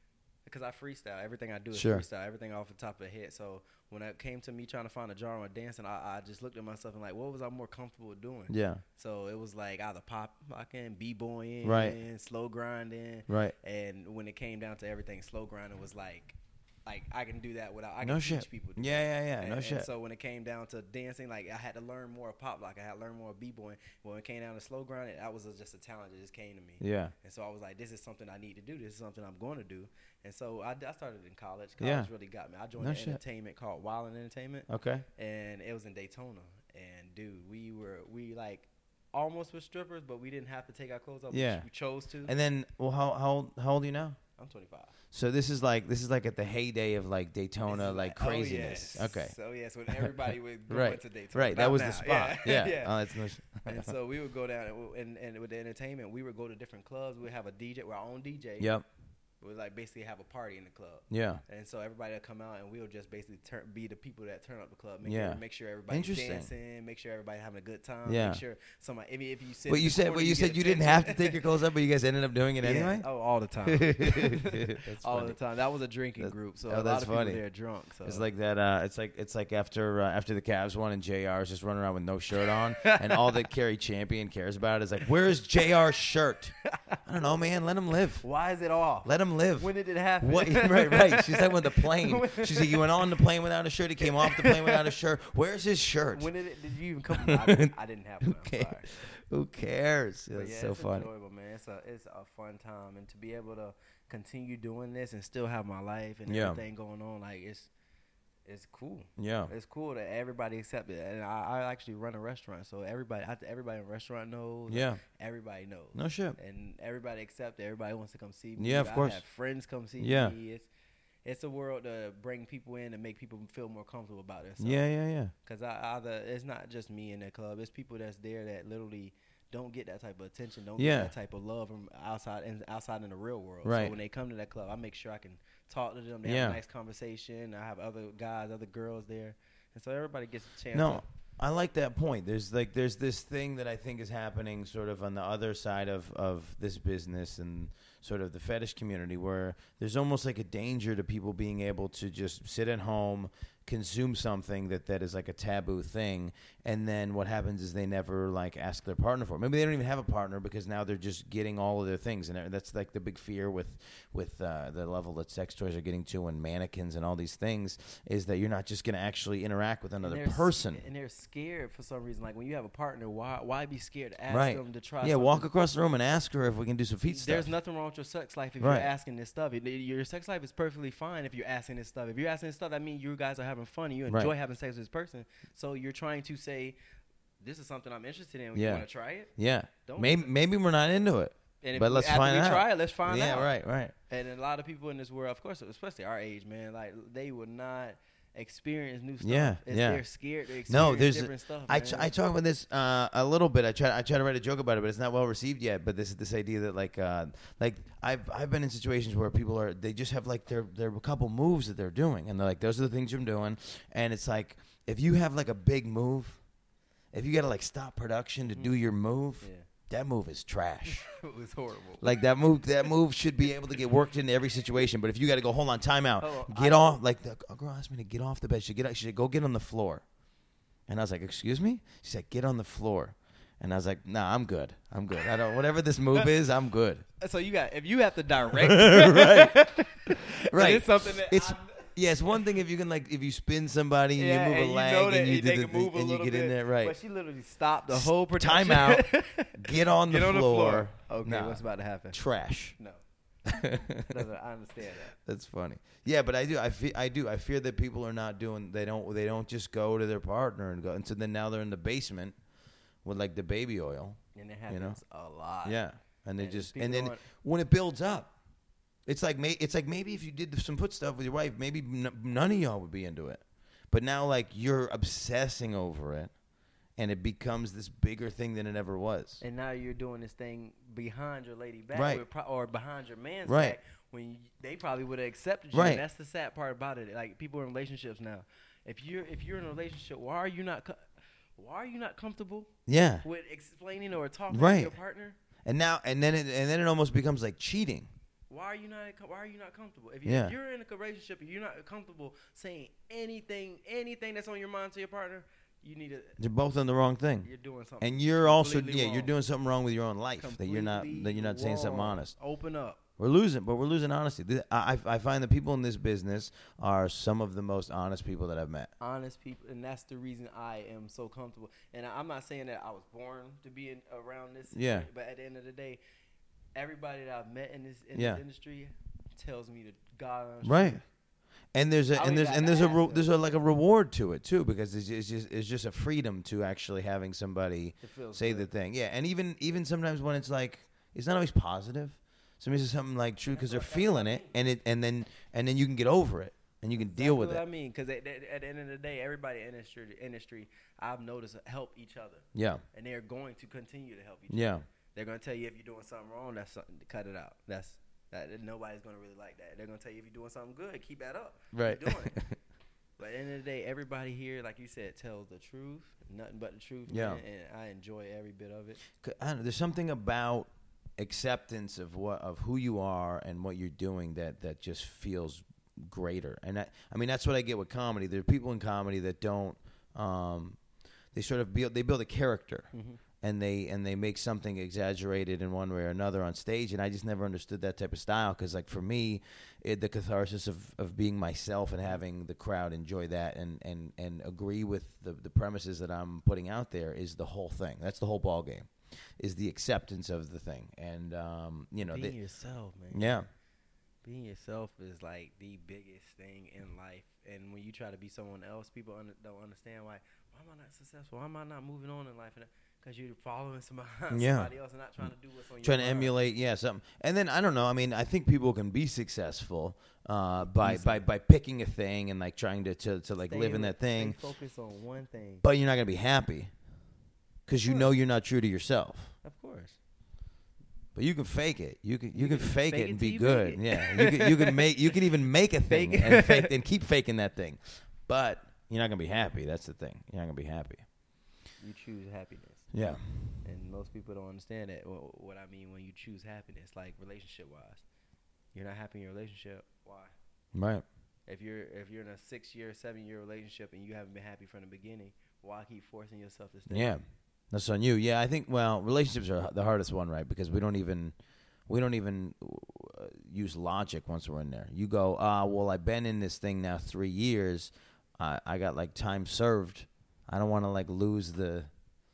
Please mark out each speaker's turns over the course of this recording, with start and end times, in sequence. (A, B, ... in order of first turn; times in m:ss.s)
0:00.5-0:42.4 A
0:01.7-0:02.0 B
0:08.5-0:08.8 B
0:11.6-0:12.0 B
0:13.3-0:13.6 B
0:18.0-0:19.9 B
0:26.8-0:27.1 B
0:31.8-0:32.1 B
0:32.8-0:33.2 B
0:34.7-0:35.0 B
0:41.3-0:41.7 B
0:42.2-0:44.2 B
0:44.4-0:45.0 A
0:45.1-0:49.4 B
0:47.7-0:58.7 A
0:50.7-0:53.9 B
0:58.6-0:58.8 B
0:59.4-1:11.6 A
1:01.1-1:01.4 B
1:05.0-1:06.5 B
1:08.1-1:08.4 B
1:09.7-1:13.1 B
1:12.6-1:18.2 A
1:13.7-1:15.4 B
1:16.2-1:17.4 B
1:18.0-1:28.2 B
1:22.4-1:23.4 A
1:28.2-1:33.0 A
1:29.0-1:29.7 B
1:30.2-1:36.3 B
1:34.0-1:35.0 A
1:36.1-1:39.0 A
1:37.1-1:41.1 B
1:40.3-1:47.7 A
1:46.3-1:46.6 B
1:48.4-2:00.7 A
1:49.2-1:49.5 B
1:54.7-1:55.0 B
1:55.9-1:56.4 B
1:58.6-1:59.2 B
2:00.0-2:00.4 B
2:01.2-2:04.8 A
2:04.6-2:05.3 B
2:05.4-2:21.1 A
2:10.8-2:11.1 B
2:13.6-2:13.9 B
2:16.2-2:16.6 B
2:20.7-2:50.8 B
2:50.0-2:55.5 A
2:54.3-2:57.5 B
2:57.1-3:06.8 A
2:58.6-2:58.9 B
3:07.4-3:09.3 A
3:08.5-3:08.8 B
3:09.4-3:13.9 B
3:09.8-3:10.3 A
3:11.6-3:13.5 A
3:14.1-3:22.1 A
3:19.2-3:20.0 B
3:20.7-3:36.4 B
3:37.1-3:41.1 B
3:38.5-3:38.7 A
3:39.4-3:39.7 A
3:40.9-3:42.1 A
3:42.0-3:50.0 B
3:46.2-3:47.0 A
3:50.9-3:57.0 B
3:55.2-3:55.4 A
3:57.2-4:02.5 A
3:58.6-4:06.9 B
4:04.2-4:09.6 A
4:07.9-4:12.8 B
4:10.1-4:12.2 A
4:13.5-4:14.1 B
4:14.1-4:15.1 A
4:15.2-4:22.4 B
4:23.0-4:25.0 B
4:24.4-4:25.8 A
4:25.6-4:28.3 B
4:26.4-4:27.2 A
4:29.1-4:36.3 B
4:37.0-4:39.4 B
4:39.4-4:55.4 A
4:41.9-4:42.2 B
4:43.5-4:43.8 B
4:45.7-4:46.0 B
4:52.9-4:53.2 B
4:54.5-4:54.9 B
4:55.6-4:58.1 B
4:58.5-5:06.4 A
5:00.3-5:00.5 B
5:06.4-5:07.5 B
5:07.4-5:09.3 A
5:08.0-5:12.3 B
5:10.4-5:13.0 A
5:13.2-5:18.9 B
5:19.0-5:26.0 A
5:24.7-5:25.1 B
5:26.8-5:31.0 A
5:28.2-5:28.4 B
5:30.6-5:31.0 B
5:31.8-5:47.6 B
5:32.2-5:33.3 A
5:38.0-5:38.7 A
5:43.5-5:44.6 A
5:47.0-6:02.4 A
5:52.6-5:52.8 B
5:54.5-5:54.8 B
6:01.7-6:02.6 B
6:03.2-6:09.0 A
6:07.1-6:07.4 B
6:09.2-6:20.8 B
6:21.3-6:22.9 B
6:22.9-6:23.2 A
6:23.4-6:42.4 B
6:42.0-6:43.4 A
6:43.1-6:43.5 B
6:44.2-6:56.4 A
6:54.3-6:54.7 B
6:55.8-7:04.4 B
7:00.6-7:01.3 A
7:03.4-7:05.6 A
7:05.6-7:06.7 B
7:07.7-7:09.3 B
7:07.8-7:08.1 A
7:09.4-7:10.0 A
7:11.2-7:21.0 B
7:12.4-7:15.0 A
7:15.9-7:16.7 A
7:21.8-7:23.0 A
7:22.9-7:23.5 B
7:23.6-7:28.0 A
7:28.7-7:30.3 A
7:30.8-7:31.0 B
7:31.5-7:37.2 A
7:36.9-7:41.4 B
7:41.9-7:51.9 B